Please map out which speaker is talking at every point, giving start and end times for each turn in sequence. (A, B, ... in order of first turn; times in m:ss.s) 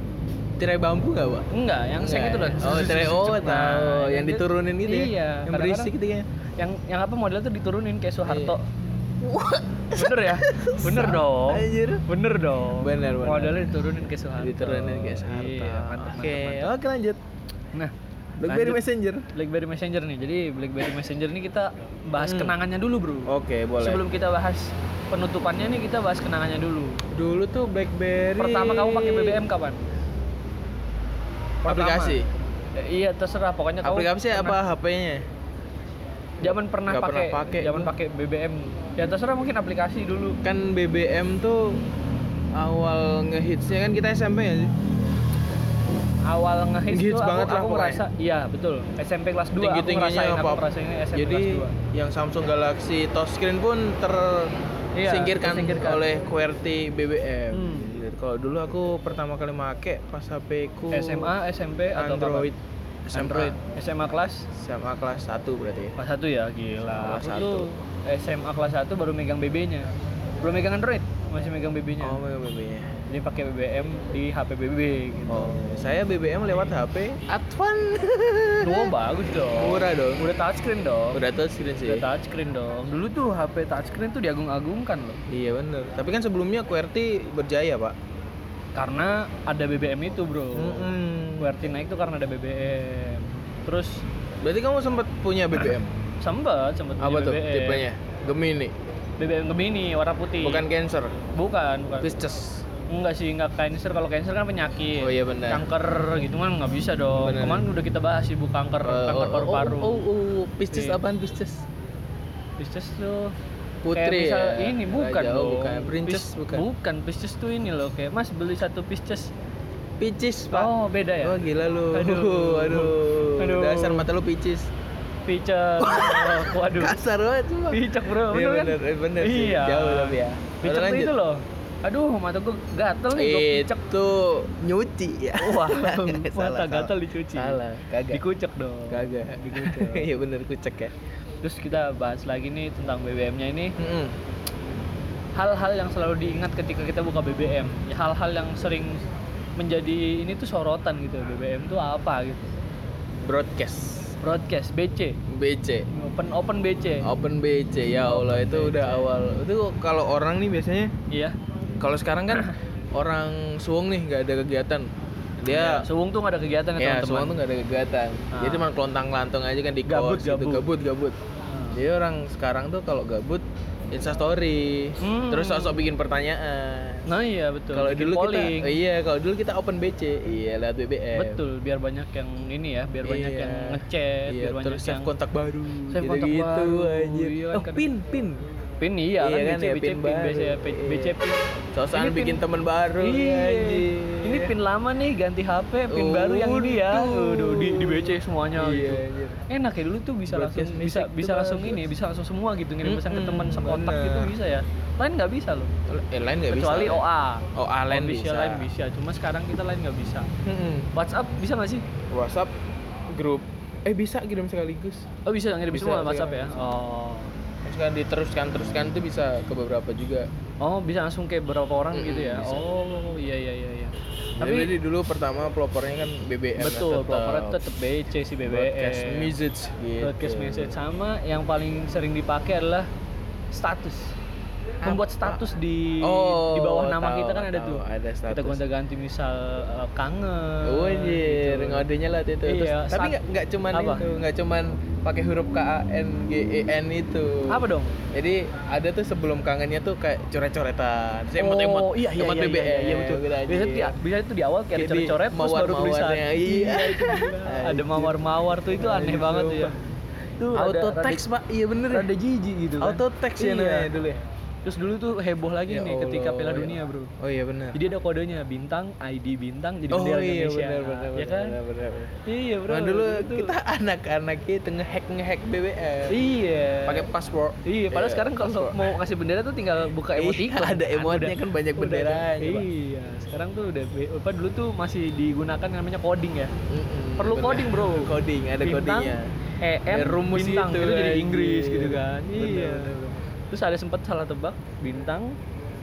0:00.6-0:06.3 A
0:01.5-0:05.9 B
0:06.6-0:08.7 B
0:08.3-0:08.6 A
0:09.2-0:12.0 A
0:09.9-0:16.7 B
0:12.8-0:13.7 A
0:14.4-0:17.2 A
0:18.4-0:19.3 A
0:18.5-0:18.8 B
0:19.3-0:27.0 B
0:22.2-0:22.6 A
0:23.3-0:24.0 A
0:27.1-0:29.4 A
0:28.4-0:29.8 B
0:31.6-0:32.2 B
0:31.7-0:32.3 A
0:32.8-0:34.6 B
0:33.8-0:35.2 A
0:36.4-0:40.4 B
0:36.4-0:37.9 A
0:40.4-0:41.8 A
0:42.6-0:44.7 A
0:46.3-0:51.7 B
0:46.9-0:48.0 A
0:49.6-0:54.5 A
0:55.0-0:56.1 B
0:55.0-1:01.3 A
0:57.5-0:57.9 B
1:00.9-1:02.5 B
1:01.9-1:02.6 A
1:03.1-1:03.6 A
1:03.1-1:04.5 B
1:04.5-1:06.0 A
1:06.0-1:09.9 B
1:06.9-1:07.7 A
1:10.4-1:12.2 B
1:12.0-1:12.9 A
1:13.1-1:15.8 B
1:15.3-1:20.2 A
1:18.6-1:21.2 B
1:21.1-1:22.0 A
1:21.8-1:25.2 B
1:25.3-1:28.0 A
1:28.8-1:34.0 B
1:30.5-1:31.6 A
1:34.4-1:35.9 A
1:36.2-1:37.9 B
1:37.0-1:38.7 A
1:39.2-1:40.7 B
1:40.4-1:41.2 A
1:41.3-1:42.1 B
1:42.0-1:42.6 A
1:42.9-1:50.1 B
1:45.0-1:45.6 A
1:47.2-1:47.7 A
1:48.8-1:51.6 A
1:50.7-1:51.0 B
1:52.6-1:53.3 B
1:53.8-1:56.7 A
1:53.9-1:59.3 B
2:00.0-2:04.7 A
2:00.5-2:01.4 B
2:01.9-2:04.1 B
2:05.3-2:07.0 B
2:05.8-2:11.1 A
2:07.7-2:13.8 B
2:13.2-2:18.2 A
2:15.4-2:17.6 B
2:18.1-2:20.1 B
2:18.9-2:20.9 A
2:21.4-2:23.8 B
2:23.8-2:24.1 A
2:25.4-2:29.0 B
2:29.6-2:32.5 B
2:33.2-2:34.1 A
2:34.2-2:35.2 B
2:35.3-2:35.9 A
2:35.9-2:37.1 B
2:37.0-2:40.9 A
2:38.0-2:39.1 B
2:41.1-2:41.4 B
2:41.8-2:44.9 A
2:45.4-2:45.9 A
2:45.5-2:47.4 B
2:46.8-2:51.2 A
2:48.3-2:48.7 B
2:49.9-2:50.7 B
2:51.5-2:51.8 B
2:51.7-2:57.1 A
2:55.0-2:55.8 B
2:57.1-2:58.8 B
2:57.7-3:01.4 A
3:01.2-3:05.1 B
3:03.0-3:08.4 A
3:05.9-3:07.9 B
3:08.8-3:12.4 B
3:09.2-3:11.2 A
3:11.7-3:14.5 A
3:13.0-3:25.7 B
3:15.9-3:19.4 A
3:20.3-3:21.9 A
3:22.8-3:24.4 A
3:25.9-3:27.0 A
3:26.5-3:30.3 B
3:27.6-3:28.7 A
3:30.4-3:30.9 A
3:30.9-3:31.9 B
3:32.1-3:32.5 A
3:33.1-3:35.1 A
3:35.3-3:37.4 B
3:35.7-3:36.6 A
3:37.6-3:40.3 A
3:40.6-3:44.7 B
3:41.9-3:42.6 A
3:44.4-3:47.6 A
3:46.6-3:49.3 B
3:48.5-3:50.8 A
3:50.0-3:52.9 B
3:53.5-3:54.2 B
3:54.8-3:58.6 A
3:54.8-4:01.9 B
4:00.6-4:14.0 A
4:02.4-4:03.2 B
4:03.7-4:04.1 B
4:07.5-4:08.0 B
4:11.4-4:19.8 B
4:14.8-4:19.9 A
4:20.4-4:21.2 B
4:20.5-4:22.1 A
4:21.9-4:23.9 B
4:22.8-4:24.2 A
4:24.7-4:27.1 B
4:25.7-4:27.8 A
4:27.7-4:31.6 B
4:29.9-4:32.2 A
4:32.3-4:33.5 B
4:32.7-4:36.3 A
4:36.1-4:37.1 B
4:36.8-4:39.0 A
4:37.6-4:46.6 B
4:40.1-4:42.7 A
4:46.7-4:49.3 A
4:47.2-4:52.9 B
4:49.9-4:53.2 A
4:53.5-4:55.4 B